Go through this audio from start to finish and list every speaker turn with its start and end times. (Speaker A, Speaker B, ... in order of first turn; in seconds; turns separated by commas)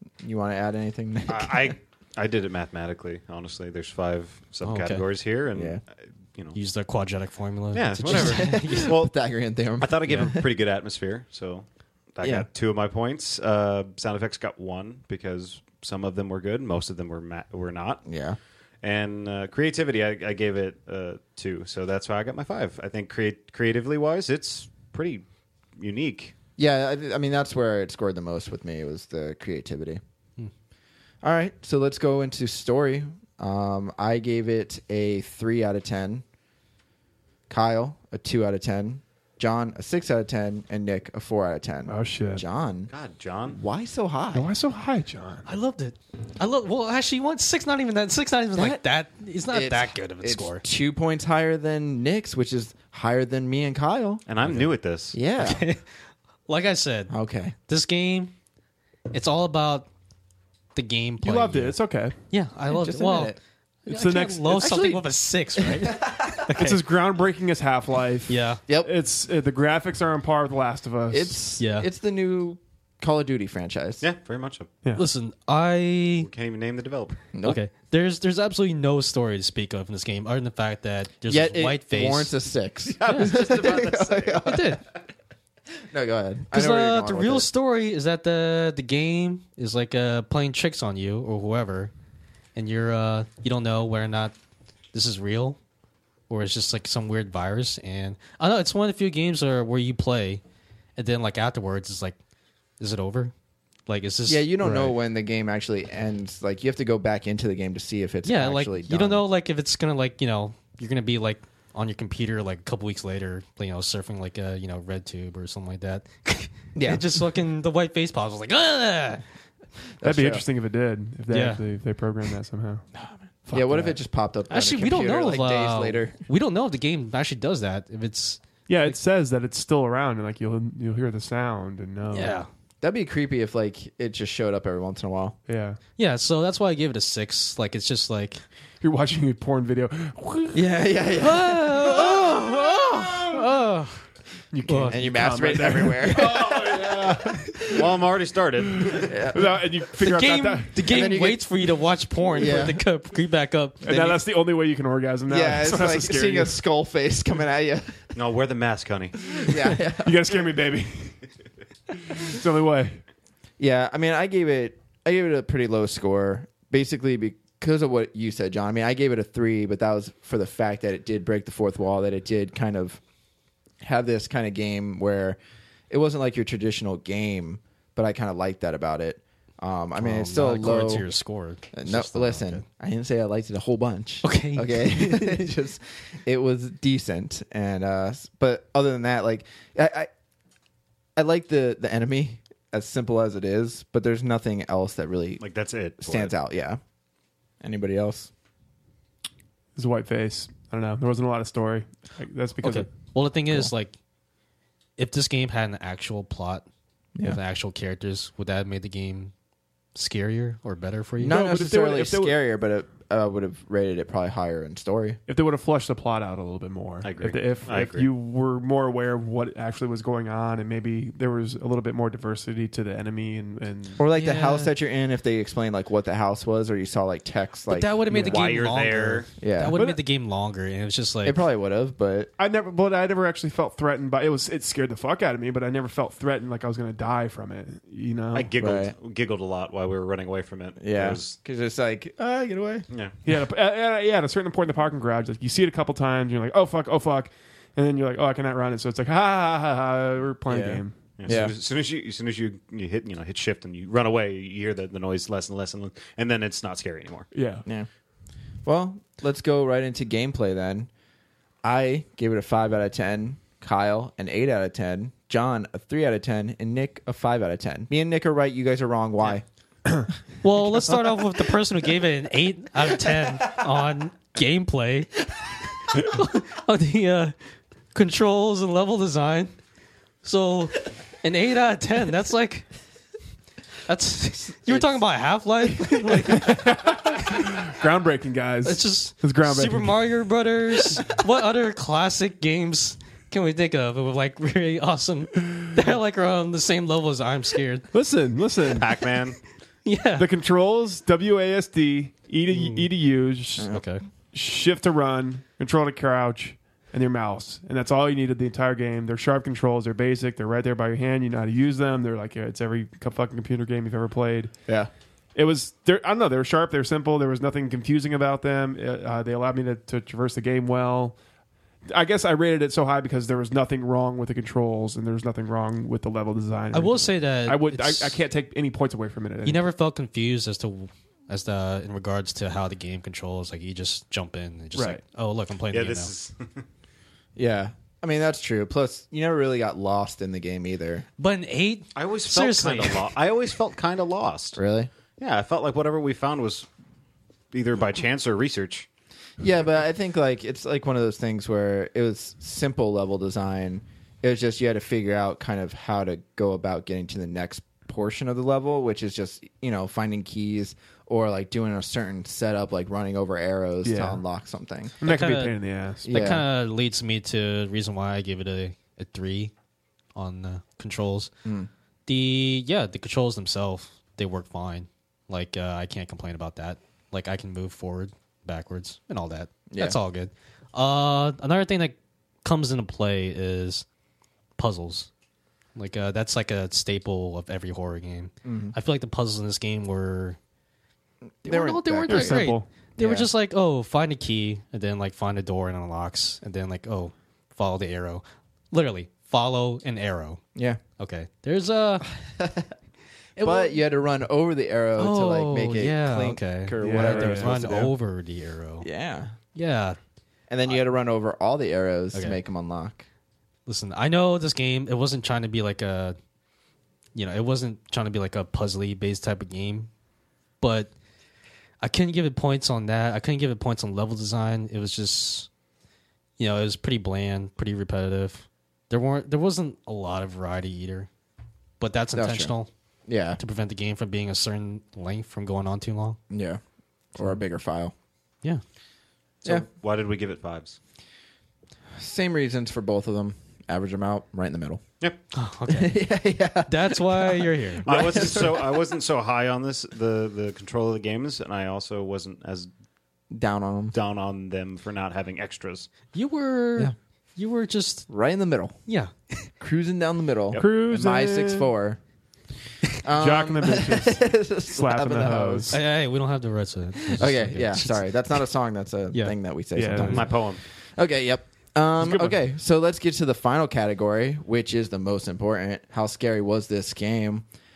Speaker A: 0.2-1.8, Speaker B: 1.3-6.6, Speaker C: 4.6-5.0, Speaker A: 5.5-5.8, Speaker C: 6.5-8.9, Speaker B: 7.7-9.1, Speaker A: 8.0-10.4, Speaker B: 9.8-18.0, Speaker A: 12.2-12.5, Speaker A: 18.0-18.4, Speaker B: 18.8-25.2, Speaker B: 25.8-26.3, Speaker A: 26.6-30.0, Speaker A: 31.2-36.2, Speaker A: 37.5-42.9, Speaker D: 41.9-42.4, Speaker B: 42.9-43.6, Speaker A: 43.5-44.5, Speaker D: 44.3-45.4, Speaker C: 45.4-50.6, Speaker A: 48.5-48.8, Speaker A: 49.5-54.5, Speaker B: 54.3-55.2, Speaker A: 55.1-55.6, Speaker C: 55.4-55.8, Speaker C: 56.5-57.1, Speaker A: 57.1-57.5, Speaker C: 57.7-58.3, Speaker C: 59.1-59.9, Speaker C: 60.7-66.8, Speaker D: 61.2-62.1, Speaker A: 62.7-63.4, Speaker D: 63.9-64.6, Speaker A: 64.5-66.6, Speaker D: 66.6-71.3, Speaker C: 68.3-68.6, Speaker A: 71.1-74.0, Speaker C: 71.6-71.9, Speaker B: 74.0-74.7, Speaker C: 74.9-76.3, Speaker B: 76.2-77.2, Speaker A: 77.3-77.6, Speaker C: 77.4-82.3, Speaker A: 81.2-84.8, Speaker B: 82.9-84.5, Speaker C: 84.4-84.8, Speaker A: 85.9-87.5, Speaker C: 86.5-91.9, Speaker C: 92.5-94.3, Speaker C: 94.9-95.6, Speaker C: 96.3-100.4, Speaker C: 101.0-102.2, Speaker C: 102.8-103.3, Speaker C: 103.9-105.0, Speaker A: 104.3-109.2, Speaker C: 108.2-119.2, Speaker A: 116.7-117.0, Speaker A: 120.0-120.4, Speaker D: 120.0-122.8, Speaker C: 121.3-121.6, Speaker A: 122.9-126.2, Speaker D: 123.5-124.0, Speaker C: 124.5-129.0, Speaker D: 128.7-132.4, Speaker C: 132.1-132.5, Speaker A: 132.8-135.4, Speaker D: 135.5-135.8, Speaker C: 136.0-138.4, Speaker D: 138.8-140.7, Speaker A: 140.5-142.7, Speaker C: 141.2-144.0, Speaker D: 144.5-147.6, Speaker C: 144.6-145.0, Speaker A: 144.9-147.9, Speaker B: 147.7-149.1, Speaker D: 148.7-150.7, Speaker A: 149.1-149.6, Speaker C: 150.0-153.8, Speaker A: 150.8-151.4, Speaker A: 152.3-152.8, Speaker A: 153.8-154.2, Speaker D: 153.8-156.6, Speaker A: 155.3-158.1, Speaker B: 158.1-159.6, Speaker A: 159.3-160.6, Speaker D: 160.0-161.2, Speaker D: 162.0-163.0, Speaker A: 163.6-173.0, Speaker A: 173.8-175.4, Speaker A: 175.9-181.1, Speaker C: 179.9-182.6, Speaker A: 181.7-190.1, Speaker C: 184.2-185.4, Speaker A: 191.2-195.4, Speaker B: 195.4-196.3, Speaker A: 196.0-196.8, Speaker A: 197.6-198.3, Speaker D: 199.7-202.9, Speaker C: 202.6-203.9, Speaker C: 205.0-206.6, Speaker C: 207.2-209.3, Speaker C: 209.9-211.4, Speaker A: 211.2-215.2, Speaker D: 211.2-212.3, Speaker D: 215.3-224.0, Speaker B: 217.0-218.1, Speaker A: 224.0-228.3, Speaker C: 224.1-224.7, Speaker C: 227.7-231.4, Speaker D: 228.1-228.3, Speaker B: 228.1-229.3, Speaker A: 229.4-229.8, Speaker D: 229.7-230.0, Speaker A: 231.2-232.3, Speaker D: 232.4-238.5, Speaker B: 238.3-241.4, Speaker A: 238.6-238.9, Speaker A: 240.8-242.8, Speaker D: 243.2-251.0, Speaker A: 250.5-251.6, Speaker B: 251.2-257.3, Speaker D: 257.3-257.6, Speaker A: 258.6-260.9, Speaker A: 261.6-269.4, Speaker C: 270.4-275.2, Speaker A: 273.1-273.6, Speaker C: 275.9-277.3, Speaker C: 277.9-279.5, Speaker C: 280.2-282.7, Speaker C: 283.9-286.9, Speaker A: 284.6-285.0, Speaker D: 286.1-290.0, Speaker C: 288.6-297.9, Speaker D: 297.9-298.9, Speaker B: 298.6-299.4, Speaker C: 299.8-300.3, Speaker D: 300.2-303.8, Speaker C: 302.5-302.9, Speaker A: 303.6-303.8, Speaker C: 303.7-304.0, Speaker D: 304.3-314.5, Speaker D: 315.3-321.2, Speaker D: 321.9-329.6, Speaker C: 326.7-328.2, Speaker C: 329.4-336.1, Speaker D: 334.7-335.0, Speaker B: 335.7-336.6, Speaker A: 337.4-341.1, Speaker C: 341.2-343.0, Speaker B: 341.9-344.6, Speaker A: 344.5-344.9, Speaker B: 345.2-346.7, Speaker B: 347.5-348.9, Speaker A: 349.4-364.9, Speaker D: 363.8-364.2, Speaker D: 365.0-366.1, Speaker C: 365.0-369.5, Speaker A: 366.0-366.4, Speaker C: 370.1-371.3, Speaker A: 371.4-371.7, Speaker C: 372.1-383.8, Speaker A: 379.7-379.9, Speaker C: 384.6-385.1, Speaker C: 385.7-390.4, Speaker A: 388.4-388.8, Speaker A: 391.4-393.3, Speaker C: 391.4-400.4, Speaker D: 392.1-392.7, Speaker A: 400.5-400.8, Speaker C: 401.0-402.1, Speaker A: 402.1-402.7, Speaker C: 403.4-403.8, Speaker A: 403.4-407.9, Speaker C: 405.0-408.9, Speaker D: 406.8-407.9, Speaker A: 408.8-409.3, Speaker C: 409.5-410.0, Speaker A: 410.5-413.1, Speaker C: 412.1-412.4, Speaker C: 413.6-416.1, Speaker C: 417.1-419.9, Speaker C: 420.6-420.9, Speaker C: 421.8-425.5, Speaker C: 426.4-431.1, Speaker C: 431.8-432.7, Speaker A: 432.1-432.5, Speaker A: 433.1-433.4, Speaker C: 433.4-436.2, Speaker A: 436.3-436.6, Speaker A: 437.1-437.9, Speaker B: 439.4-440.8, Speaker A: 441.9-444.8, Speaker C: 445.3-446.0, Speaker A: 445.7-448.9, Speaker C: 446.7-447.8, Speaker B: 447.9-452.7, Speaker A: 453.3-453.9, Speaker B: 453.9-455.9, Speaker C: 456.1-458.1, Speaker A: 458.1-458.8, Speaker C: 458.9-459.1, Speaker A: 459.6-462.0, Speaker D: 460.5-461.7, Speaker A: 463.0-465.8, Speaker D: 463.1-465.8, Speaker C: 465.7-468.1, Speaker A: 467.0-477.4, Speaker D: 469.7-470.2, Speaker C: 469.9-470.2, Speaker B: 470.1-470.6, Speaker D: 472.0-472.4